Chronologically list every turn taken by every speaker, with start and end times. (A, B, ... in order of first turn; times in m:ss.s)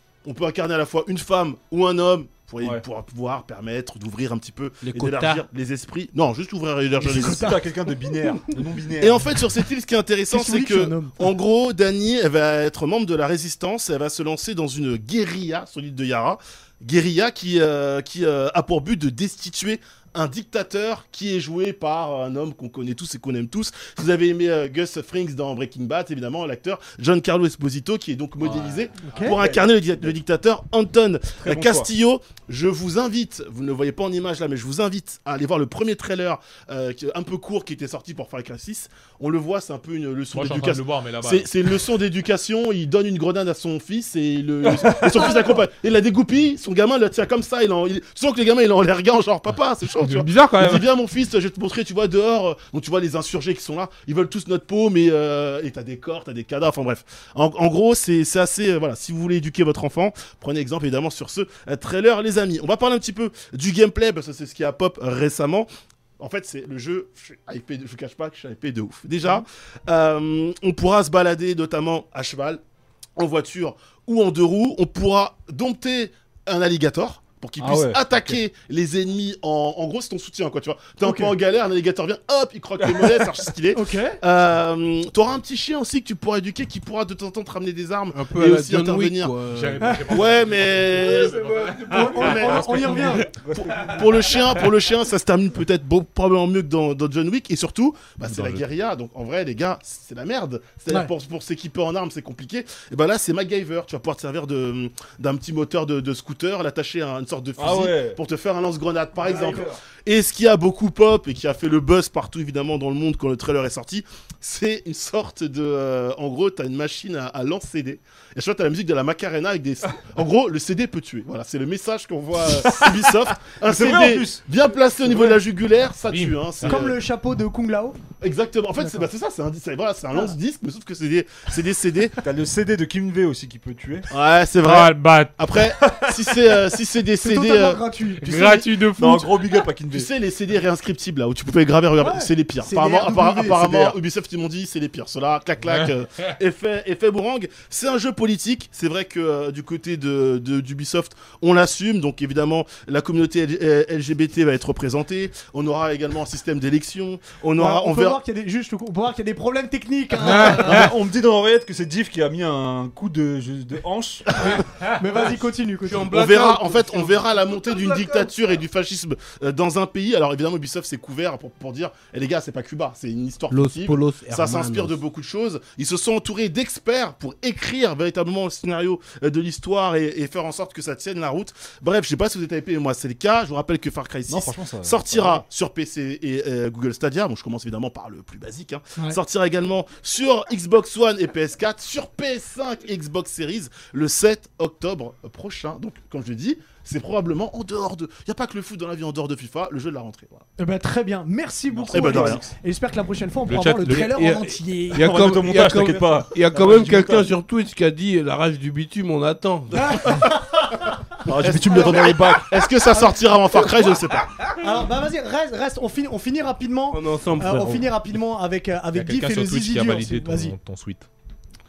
0:00.2-0:07.6 A
0:04.8-0:05.5 B
0:07.0-0:07.6 C
0:07.0-0:09.4 D
0:09.0-1:05.7 A
0:10.3-0:11.3 C
0:28.4-0:29.4 E
0:29.0-0:29.4 C
0:31.4-0:31.9 D
0:40.3-0:41.8 E
0:50.0-0:50.9 E
1:06.2-1:12.6 A
1:13.2-1:29.4 A
1:17.6-1:18.4 D
1:21.0-1:21.3 C
1:22.8-1:23.4 D
1:23.7-1:24.2 C
1:28.1-1:30.4 B
1:29.5-1:34.0 E
1:30.1-1:31.4 A
1:30.9-1:33.2 B
1:31.9-1:33.3 C
1:32.2-2:07.0 A
1:33.4-1:33.9 D
1:38.2-1:38.6 E
1:47.6-1:48.2 D
1:49.2-1:49.8 D
2:03.6-2:04.4 D
2:06.1-2:06.6 E
2:06.6-2:08.0 C
2:08.2-2:12.2 A
2:08.8-2:09.1 C
2:12.2-2:14.1 D
2:14.1-2:18.7 A
2:14.6-2:15.5 E
2:17.2-2:18.3 C
2:18.2-2:19.4 E
2:18.9-2:20.1 D
2:19.9-2:38.2 A
2:22.0-2:23.6 C
2:23.5-2:23.9 D
2:37.6-2:40.8 C
2:40.3-2:44.6 D
2:44.4-2:46.1 C
2:45.8-2:48.3 B
2:46.1-3:20.4 A
2:53.5-2:55.0 B
3:04.3-3:05.4 D
3:20.6-3:25.4 C
3:21.8-3:22.4 A
3:21.9-3:22.4 D
3:23.5-3:24.1 E
3:23.8-3:30.3 B
3:25.0-3:27.3 D
3:29.7-3:31.0 C
3:31.2-3:32.6 D
3:31.3-3:34.3 A
3:31.7-3:32.2 C
3:32.9-3:33.7 C
3:34.6-3:40.5 C
3:36.9-3:37.9 B
3:38.9-3:41.1 E